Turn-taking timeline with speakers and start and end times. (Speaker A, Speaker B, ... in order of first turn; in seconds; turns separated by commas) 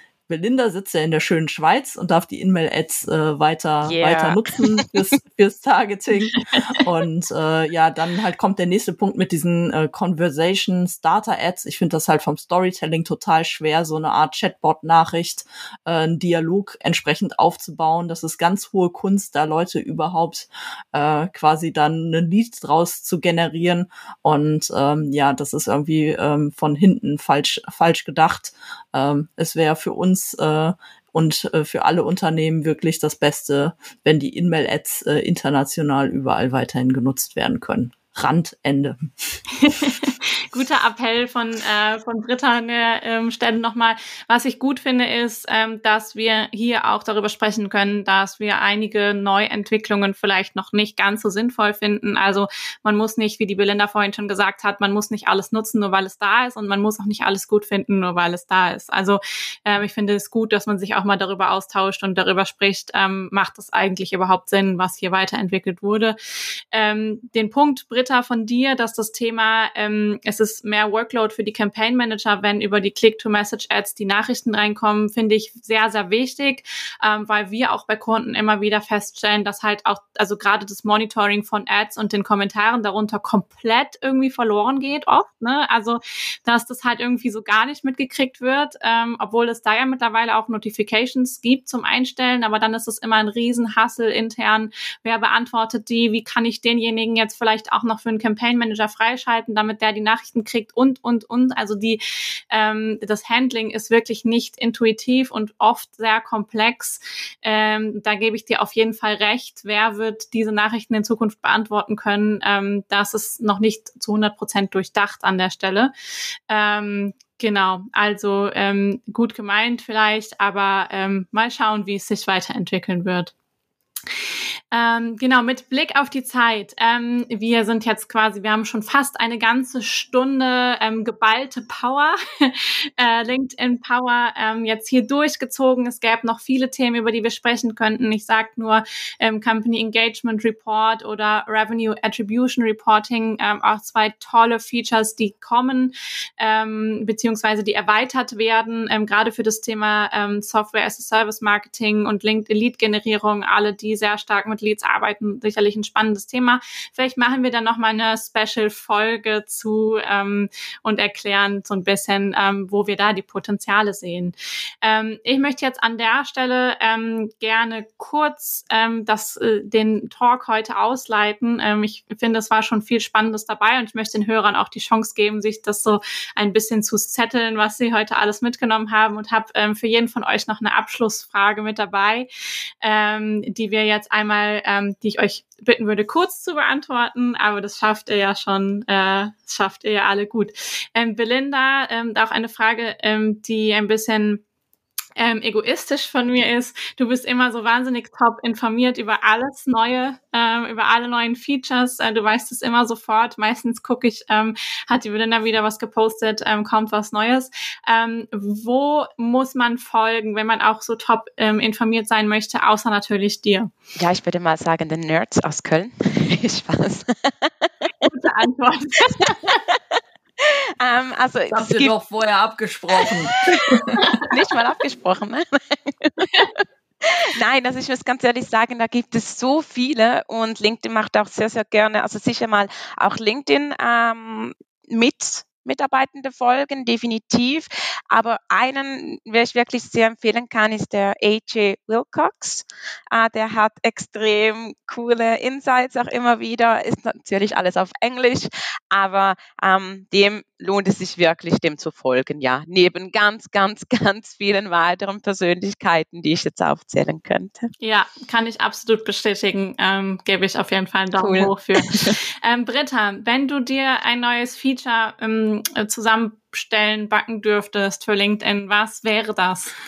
Speaker A: 0.3-39.1, Speaker B: 3.8-4.9, Speaker C: 39.6-66.2, Speaker C: 66.7-115.9, Speaker C: 116.5-123.3, Speaker C: 124.7-182.3, Speaker C: 182.8-194.4, Speaker C: 195.2-213.7, Speaker B: 214.0-218.1, Speaker C: 218.0-219.5, Speaker B: 219.1-221.9, Speaker A: 221.5-224.2, Speaker B: 224.1-257.7, Speaker C: 257.8-269.8, Speaker B: 261.2-262.2